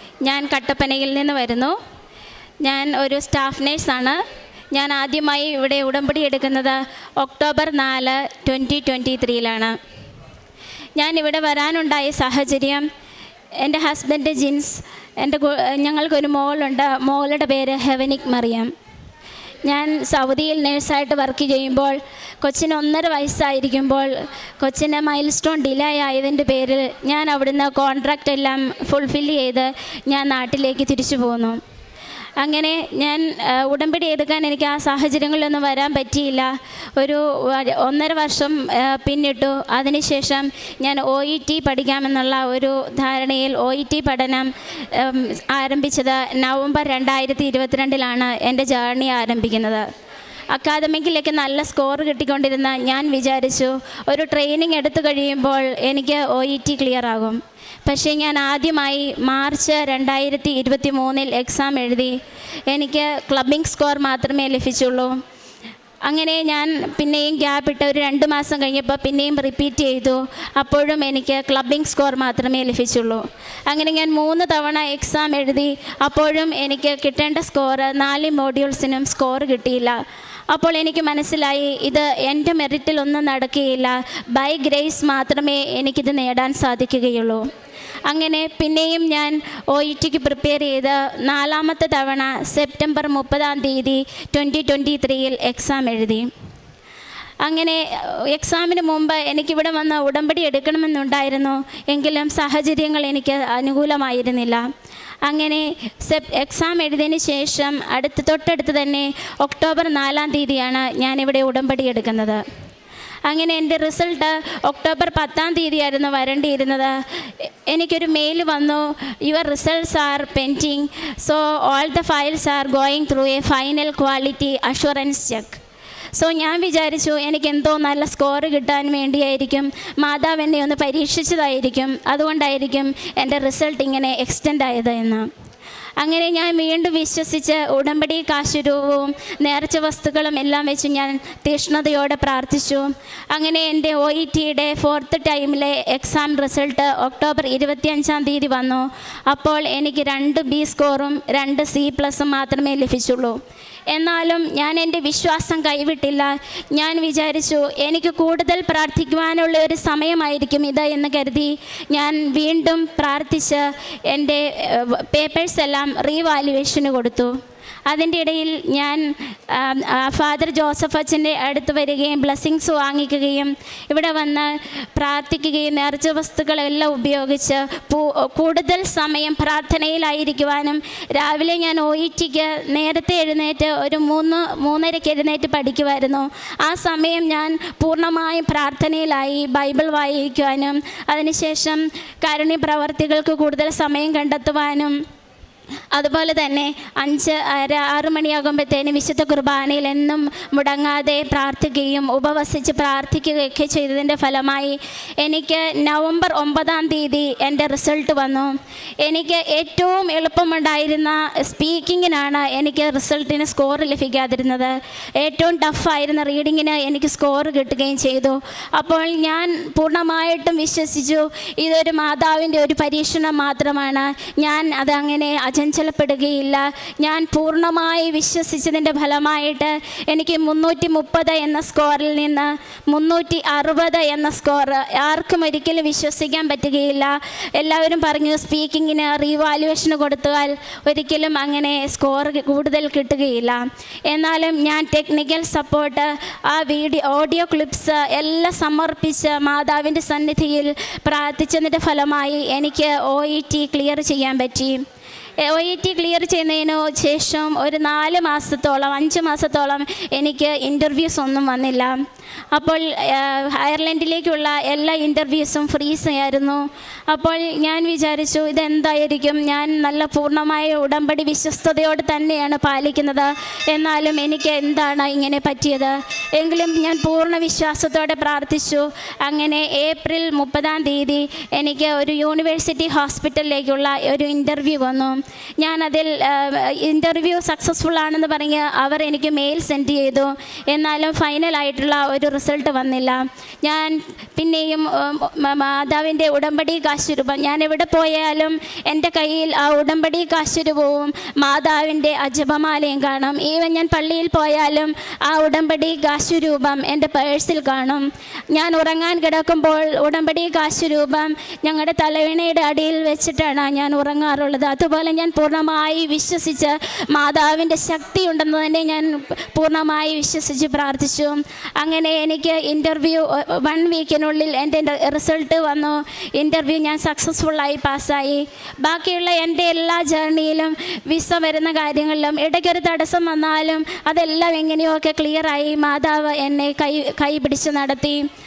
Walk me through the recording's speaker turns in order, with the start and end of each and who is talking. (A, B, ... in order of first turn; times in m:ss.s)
0:00.2-0:01.7 A
0:02.6-0:04.2 A
0:04.7-0:09.8 A
0:11.0-0:12.8 A
0:13.6-0:18.7 A
0:19.6-0:31.6 A
0:32.4-0:49.8 A
0:50.5-1:02.1 A
1:02.7-1:05.1 A
1:06.1-1:20.0 A
1:20.5-1:27.4 A
1:28.1-1:36.3 A
1:37.4-1:44.6 A
1:45.2-1:52.4 A
1:53.3-1:57.0 A
1:57.7-2:05.6 A
2:06.2-2:15.3 A
2:16.0-2:33.4 A
2:33.9-2:47.3 A
2:47.9-3:14.9 A
3:15.9-4:14.8 A
4:15.4-4:22.0 A
4:22.5-5:38.2 A